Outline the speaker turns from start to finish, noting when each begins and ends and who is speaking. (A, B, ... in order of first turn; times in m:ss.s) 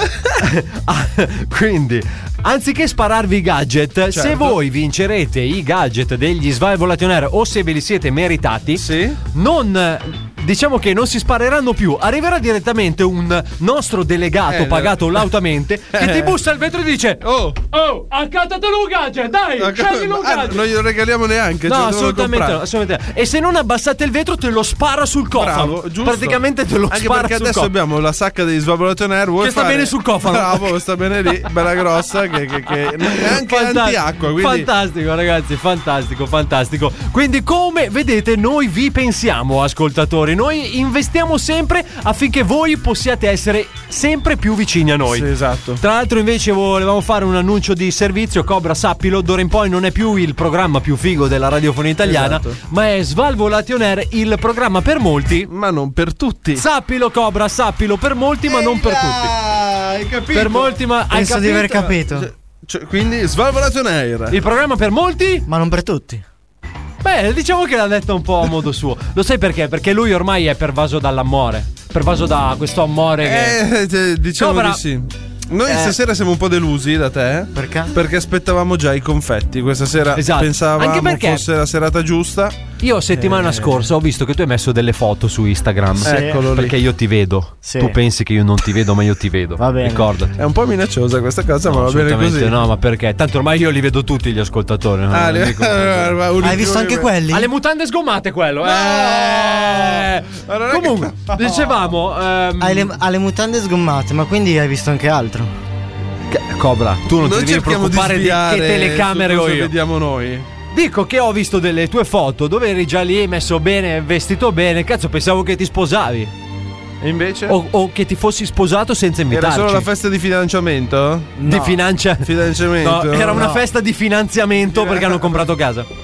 0:00.4-0:20.6 A
0:04.1-0:04.6 B
0:08.8-0:09.2 B
0:14.5-0:15.3 B
0:16.0-0:16.3 B
0:17.2-0:17.6 B
0:19.6-0:22.6 B
0:21.7-0:27.7 A
0:25.4-0:34.7 B
0:29.4-0:30.7 A
0:33.0-0:55.5 A
0:45.1-0:45.8 B
0:52.0-0:52.6 B
0:55.5-0:56.6 B
0:56.6-0:59.3 A
0:58.5-1:00.8 B
1:00.3-1:01.9 A
1:01.1-1:02.3 C
1:01.9-1:04.4 B
1:04.3-1:05.5 A
1:05.5-1:06.2 C
1:07.0-1:13.6 A
1:13.2-1:22.6 B
1:14.4-1:14.8 A
1:15.7-1:16.0 A
1:17.6-1:18.0 C
1:20.2-1:21.4 A
1:22.8-1:30.3 A
1:23.1-1:23.7 B
1:26.0-1:26.5 C
1:26.0-1:26.7 B
1:27.6-1:28.0 C
1:29.6-1:30.1 C
1:30.4-1:32.6 B
1:31.7-1:36.2 A
1:35.1-1:37.1 B
1:36.4-1:37.5 C
1:37.3-1:42.9 A
1:38.6-1:41.8 B
1:42.6-1:45.5 C
1:46.3-1:49.7 A
1:47.1-1:50.5 B
1:50.7-1:56.3 A
1:57.0-1:57.6 B
1:57.5-1:59.9 A
1:59.3-2:01.5 B
2:01.4-2:01.8 C
2:01.5-2:02.3 A
2:02.2-2:03.5 B
2:02.8-2:05.9 A
2:03.3-2:03.6 C
2:04.7-2:05.4 B